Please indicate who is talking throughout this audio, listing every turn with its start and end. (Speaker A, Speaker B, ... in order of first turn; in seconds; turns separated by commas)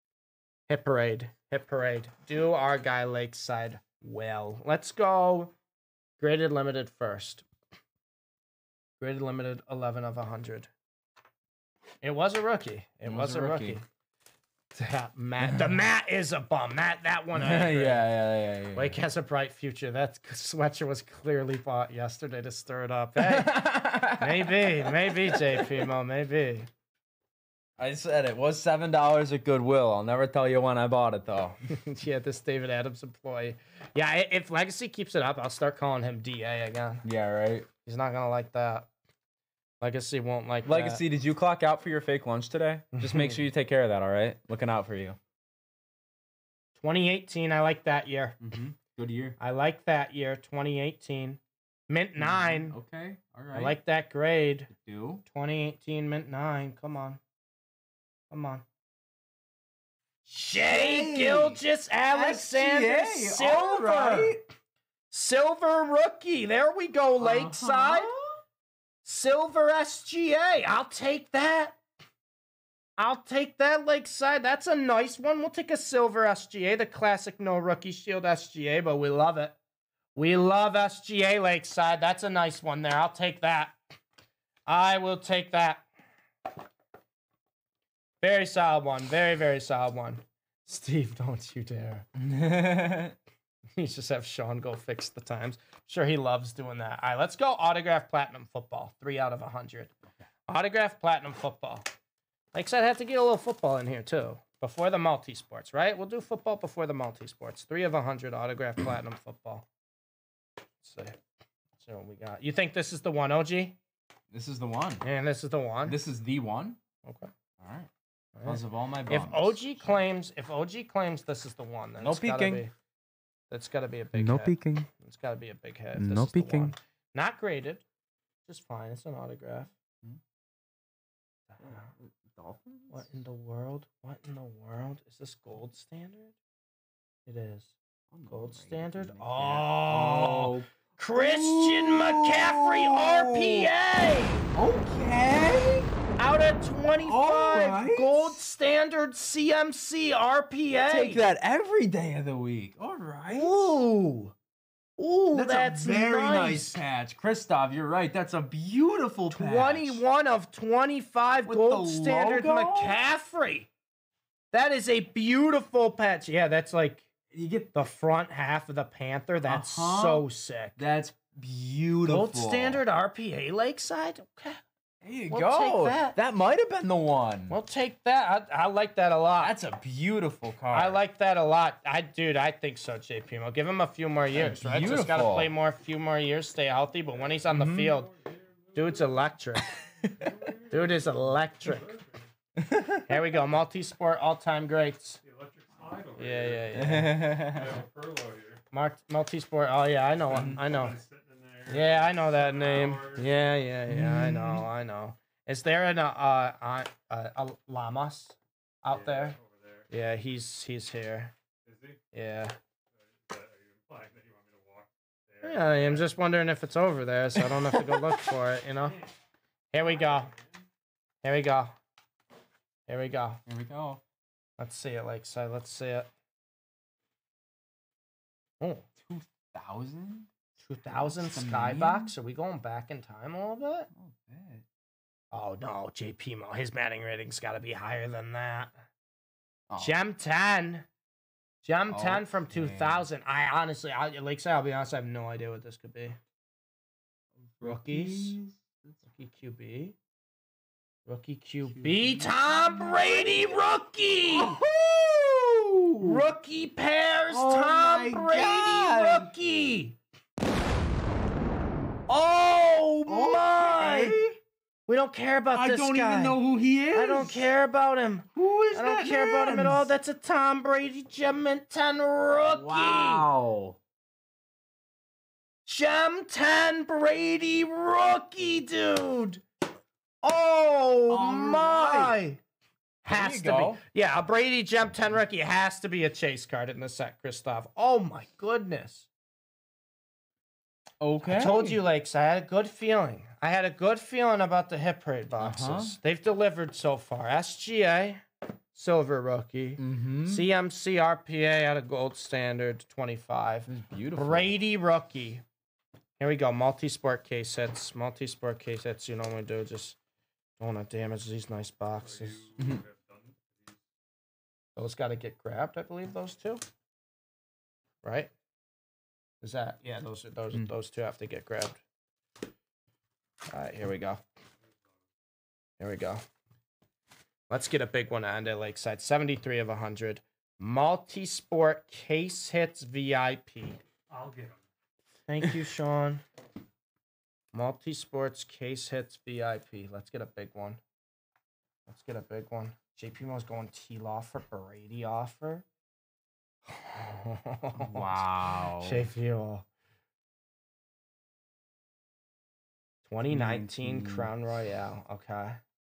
Speaker A: 0.7-5.5, Speaker A: 6.2-7.5, Speaker A: 9.0-10.7, Speaker A: 12.0-13.8, Speaker B: 13.1-13.8, Speaker A: 14.7-18.1, Speaker B: 15.4-15.7, Speaker B: 17.3-19.0, Speaker A: 18.8-26.7, Speaker B: 23.2-25.9, Speaker B: 27.8-31.6, Speaker A: 31.7-37.0, Speaker B: 37.0-37.7, Speaker A: 37.8-38.9, Speaker A: 39.8-41.0, Speaker B: 40.6-45.2, Speaker A: 42.9-43.4, Speaker A: 46.8-48.4, Speaker B: 48.4-49.4, Speaker A: 49.4-52.8, Speaker B: 52.2-53.8, Speaker A: 53.5-54.7, Speaker B: 54.7-55.2, Speaker A: 55.3-57.2, Speaker A: 58.3-58.6, Speaker A: 60.2-64.4, Speaker B: 60.6-64.4, Speaker A: 65.1-68.1, Speaker B: 67.2-68.4, Speaker A: 69.0-71.8, Speaker A: 73.0-79.6, Speaker A: 80.2-83.8, Speaker A: 84.7-85.9, Speaker A: 88.2-92.1, Speaker B: 92.2-93.2, Speaker A: 93.8-99.9, Speaker A: 100.5-101.8, Speaker A: 102.5-109.7, Speaker A: 110.8-111.2, Speaker A: 111.8-113.8, Speaker B: 114.3-115.0, Speaker A: 115.0-116.0, Speaker B: 115.9-116.8, Speaker A: 117.0-117.3, Speaker B: 117.6-117.9, Speaker A: 118.3-122.7, Speaker B: 118.4-119.6, Speaker B: 122.0-122.6, Speaker A: 123.5-127.8, Speaker B: 124.1-124.9, Speaker B: 125.9-126.7, Speaker A: 128.5-129.7, Speaker A: 131.5-131.9, Speaker B: 131.6-133.0, Speaker A: 132.9-136.3, Speaker A: 137.3-137.8, Speaker B: 138.1-143.7, Speaker A: 138.3-144.5, Speaker B: 144.5-145.9, Speaker A: 146.2-151.3, Speaker B: 147.0-148.4, Speaker B: 150.9-153.8, Speaker A: 153.3-154.3, Speaker A: 155.0-156.8, Speaker B: 155.3-160.0, Speaker A: 159.3-163.7, Speaker B: 161.5-163.0, Speaker A: 164.5-167.1, Speaker B: 167.3-167.8, Speaker A: 167.7-170.8, Speaker B: 169.4-170.2, Speaker B: 170.8-172.8, Speaker A: 172.1-174.6, Speaker B: 175.0-177.6, Speaker A: 175.3-176.2, Speaker A: 177.5-179.6, Speaker B: 179.4-181.0, Speaker A: 180.7-188.1, Speaker B: 184.3-185.5, Speaker B: 187.5-187.9, Speaker C: 187.9-189.1, Speaker A: 188.7-189.7, Speaker C: 190.1-191.0, Speaker A: 190.7-191.9, Speaker C: 191.6-192.2, Speaker B: 192.6-193.2, Speaker A: 193.1-195.2, Speaker C: 195.2-198.6, Speaker A: 196.2-197.2, Speaker B: 196.7-197.8, Speaker A: 198.7-201.0, Speaker B: 200.3-200.6, Speaker C: 200.6-203.3, Speaker A: 201.7-209.4, Speaker B: 203.9-204.7, Speaker C: 208.9-209.9, Speaker A: 209.9-211.3, Speaker C: 211.7-212.0, Speaker A: 212.1-212.6, Speaker C: 213.2-216.1, Speaker A: 215.4-219.1, Speaker B: 217.4-218.2, Speaker A: 219.7-220.3, Speaker C: 220.2-220.4, Speaker A: 221.2-221.8, Speaker A: 222.9-223.4, Speaker B: 223.5-224.0, Speaker A: 224.6-226.1, Speaker A: 228.6-228.8, Speaker B: 229.0-230.3, Speaker A: 230.6-233.9, Speaker B: 230.9-232.1, Speaker B: 233.9-234.7, Speaker A: 235.3-238.8, Speaker B: 239.7-239.9, Speaker A: 239.8-240.9, Speaker A: 241.6-246.2, Speaker B: 241.9-243.1, Speaker B: 247.6-249.0, Speaker A: 247.6-248.4, Speaker A: 249.0-250.0, Speaker A: 251.1-254.6, Speaker B: 251.7-253.6, Speaker B: 254.3-256.2, Speaker A: 256.0-260.0, Speaker B: 257.3-259.3, Speaker A: 262.1-264.2, Speaker B: 263.1-264.4, Speaker A: 264.9-266.4, Speaker B: 265.5-267.5, Speaker A: 266.9-273.3, Speaker B: 268.4-269.9, Speaker B: 272.4-273.8, Speaker A: 275.6-279.4, Speaker A: 280.2-282.4, Speaker B: 281.1-282.2, Speaker A: 283.0-289.1, Speaker B: 283.1-283.8, Speaker B: 291.0-291.8, Speaker A: 291.2-305.4, Speaker B: 295.4-296.0, Speaker B: 299.8-300.5, Speaker B: 303.7-304.5, Speaker A: 306.2-310.0, Speaker A: 310.6-312.5, Speaker C: 312.0-313.8, Speaker B: 312.6-312.8, Speaker A: 314.8-316.6, Speaker A: 318.0-318.3, Speaker A: 319.4-321.8, Speaker A: 323.5-324.2, Speaker A: 325.8-326.2, Speaker A: 327.5-333.8, Speaker C: 334.1-334.6, Speaker A: 335.3-336.2, Speaker B: 335.4-335.7, Speaker A: 337.5-340.8, Speaker A: 341.9-345.7, Speaker A: 346.7-348.2, Speaker B: 347.8-349.1, Speaker A: 348.8-349.7, Speaker A: 353.1-355.6, Speaker B: 353.3-354.3